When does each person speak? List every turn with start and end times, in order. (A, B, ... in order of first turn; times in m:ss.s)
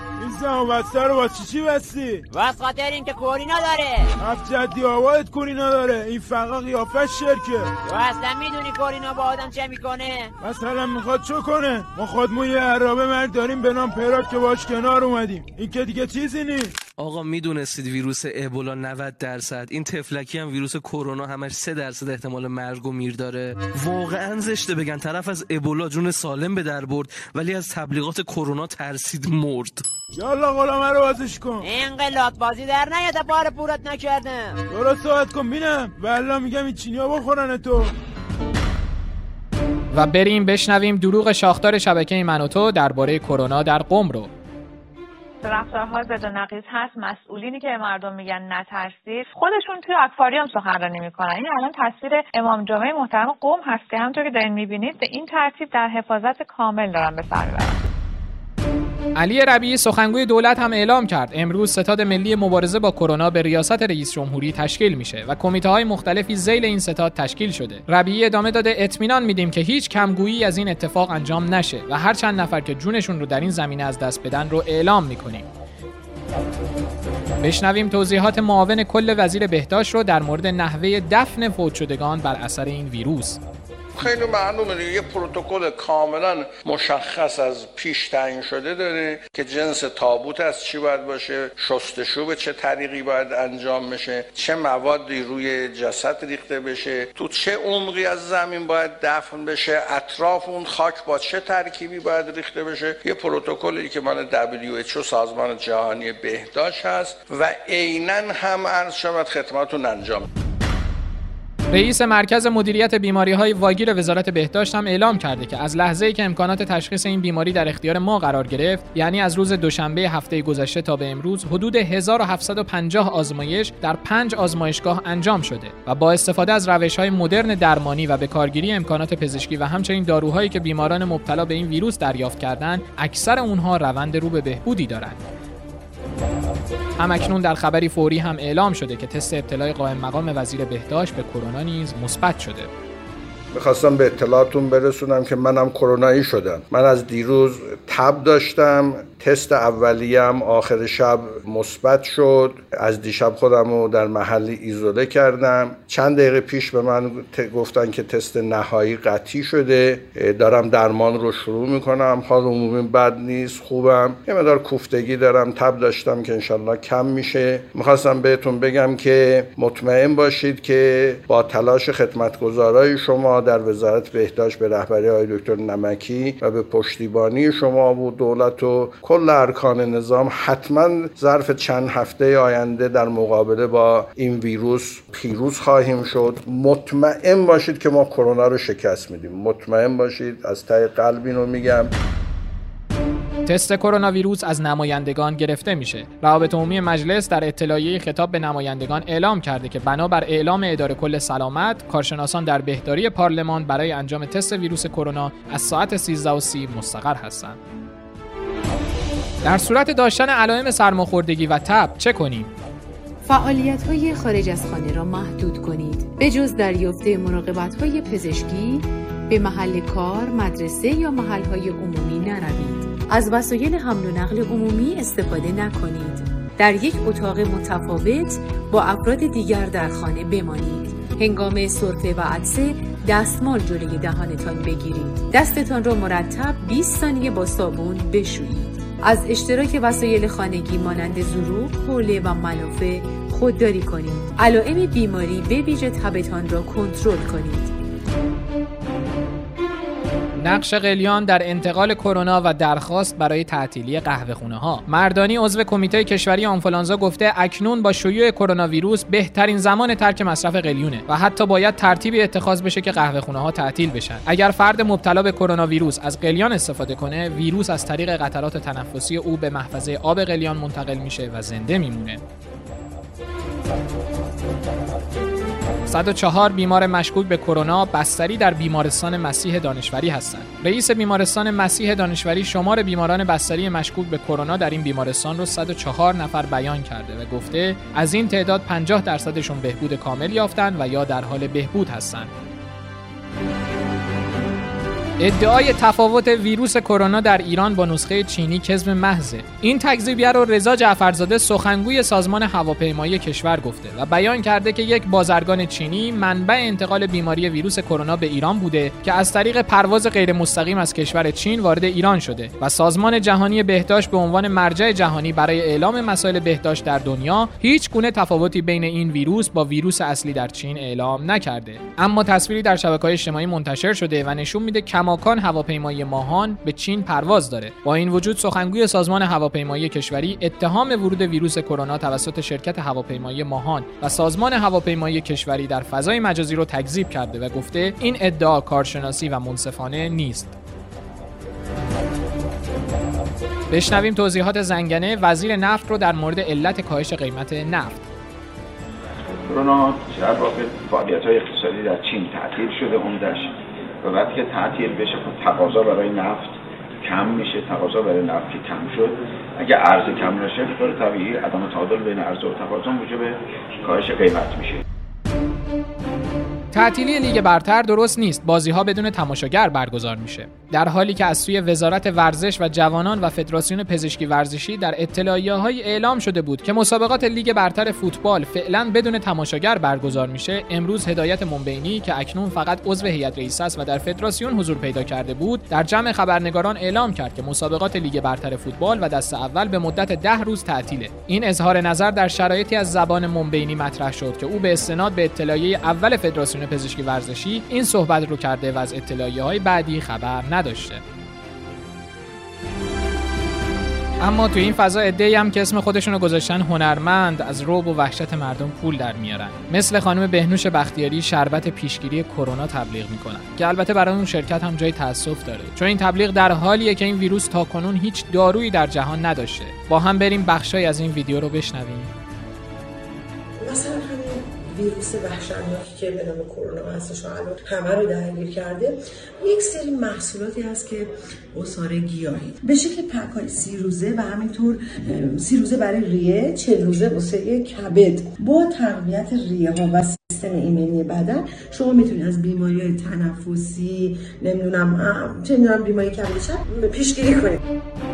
0:00.2-0:02.2 A
0:02.3-0:04.1 B
0:04.2-0:07.7 A
0:07.8-0:10.3 B
0:10.4-0:16.7 A
0:17.0-0:29.8 C
0:30.2-0:31.6 A
0:31.6-0:34.6 B
0:34.7-0:37.9 A
0:39.9-0:44.3 D
0:45.4-0:57.8 E
0:59.2-1:15.5 D
1:17.4-1:23.4 D
1:24.0-1:50.3 F
1:51.7-2:15.2 D
2:17.0-2:22.7 D
2:23.5-3:11.9 F
3:13.5-3:27.6 D
3:29.4-3:32.5 D
3:33.3-4:07.7 G
4:10.4-4:32.2 D
4:35.9-4:52.3 D
4:55.2-5:40.6 D
5:43.7-5:48.0 D
5:49.5-6:04.8 H
6:06.7-6:41.0 D
6:44.2-7:02.1 D
7:03.6-7:27.6 I